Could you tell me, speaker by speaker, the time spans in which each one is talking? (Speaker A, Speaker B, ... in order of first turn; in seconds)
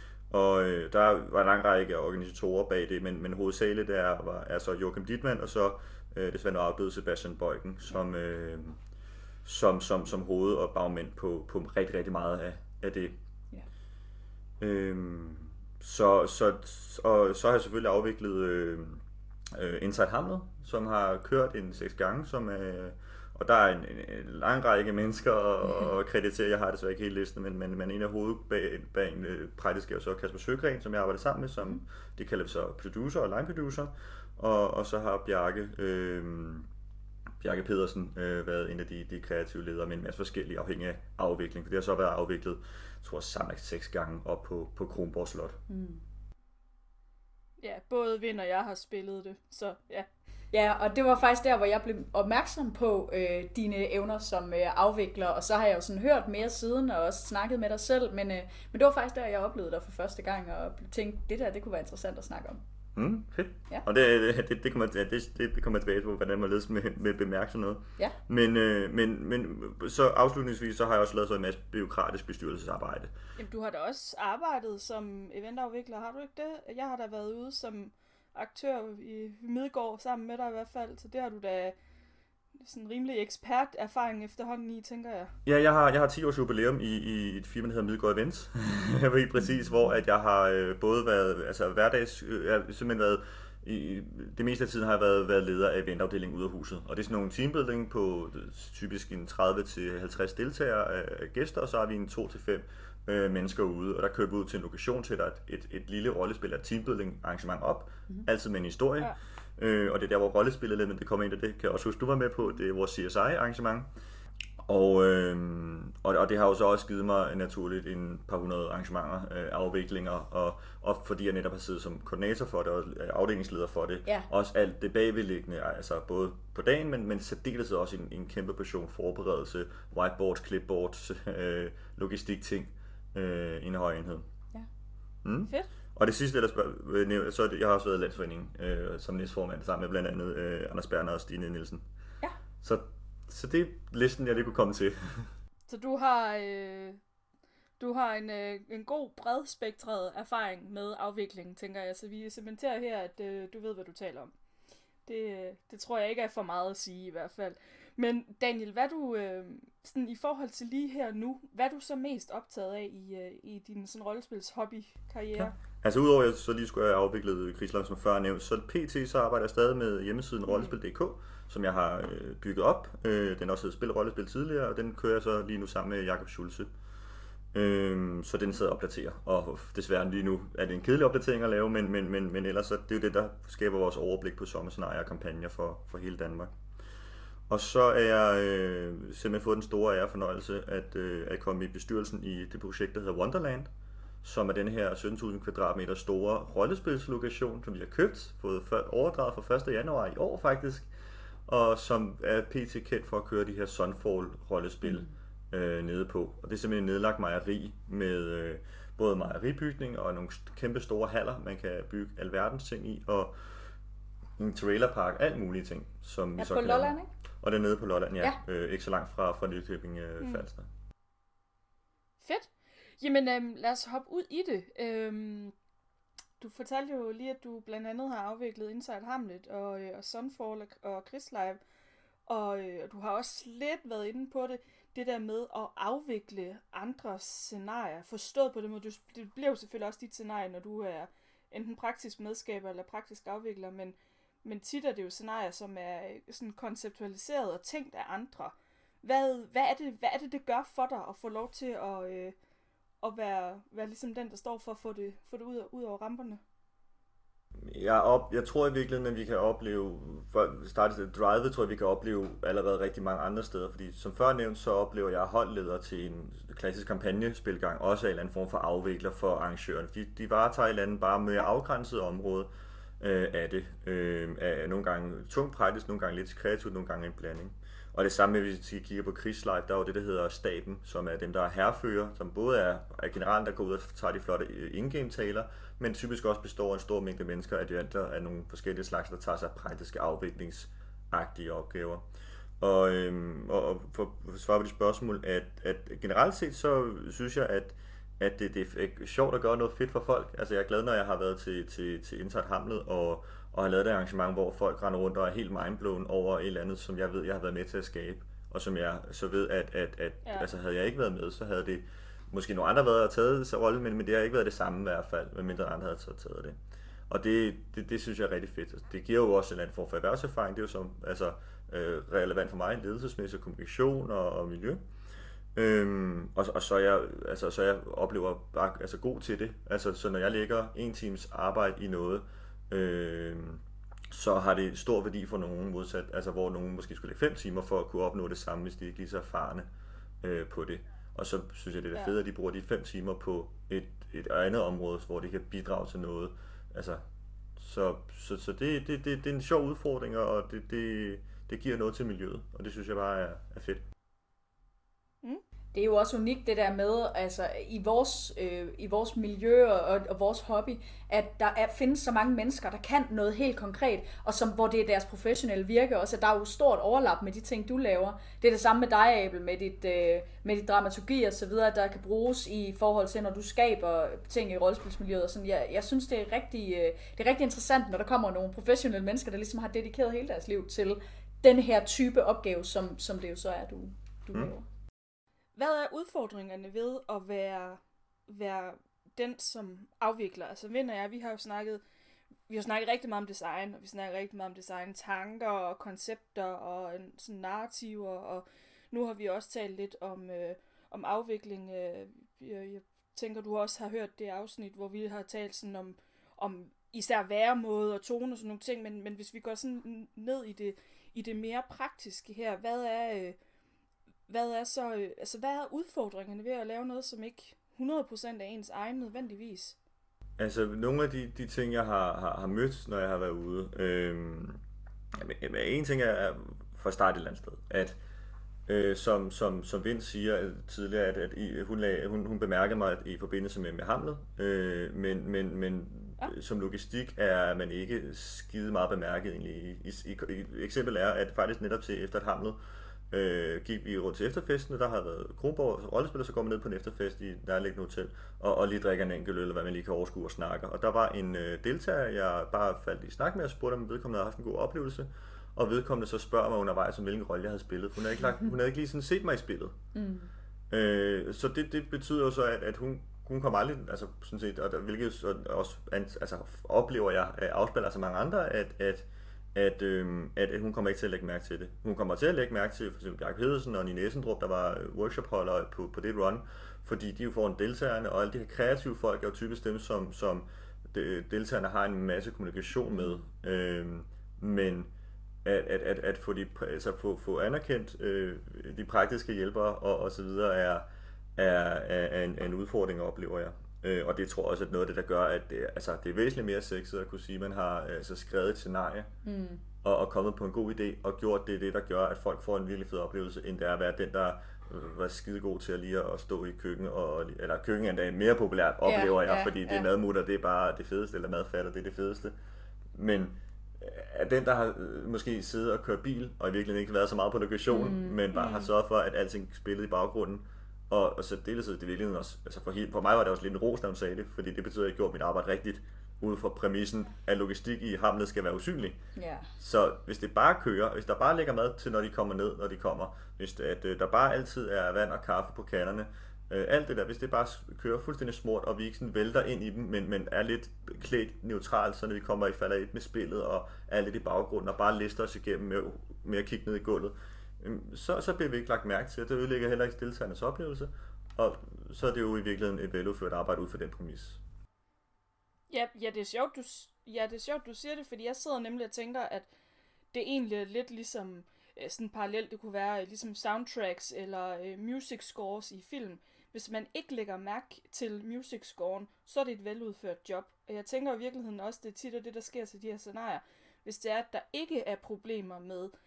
Speaker A: 0.3-8.8, 9.4-13.2, 14.6-36.7, 37.4-45.6, 62.9-73.1, 85.4-113.9, 114.6-134.2, 135.2-141.8, 142.6-145.3, 165.4-176.7, 177.5-186.6, 187.5-193.7, 194.2-200.9, 201.5-213.4, 214.4-220.7, 257.6-272.5, 273.0-292.1, 292.6-316.6, 317.1-324.8, 325.5-339.7, 340.2-347.0, 347.6-353.8, 420.4-424.6, 425.1-428.0, 428.7-442.6, 443.1-459.7, 460.7-484.9, 485.4-499.1, 499.8-512.3, 512.9-529.0, 529.6-554.4
Speaker B: 45.7-46.0, 50.5-62.6, 216.4-217.1, 355.7-384.7, 459.9-460.3, 499.2-499.6, 508.8-509.9, 517.7-518.4, 529.1-529.5
Speaker C: 47.6-50.1, 73.4-81.8, 82.6-85.3, 145.7-147.0, 147.8-154.3, 155.1-165.5, 220.2-220.4, 222.2-225.5, 226.4-231.6, 232.3-252.3, 253.0-256.4, 385.6-391.8, 392.5-413.4, 414.3-419.8, 518.3-518.7, 555.7-559.5, 560.1-575.9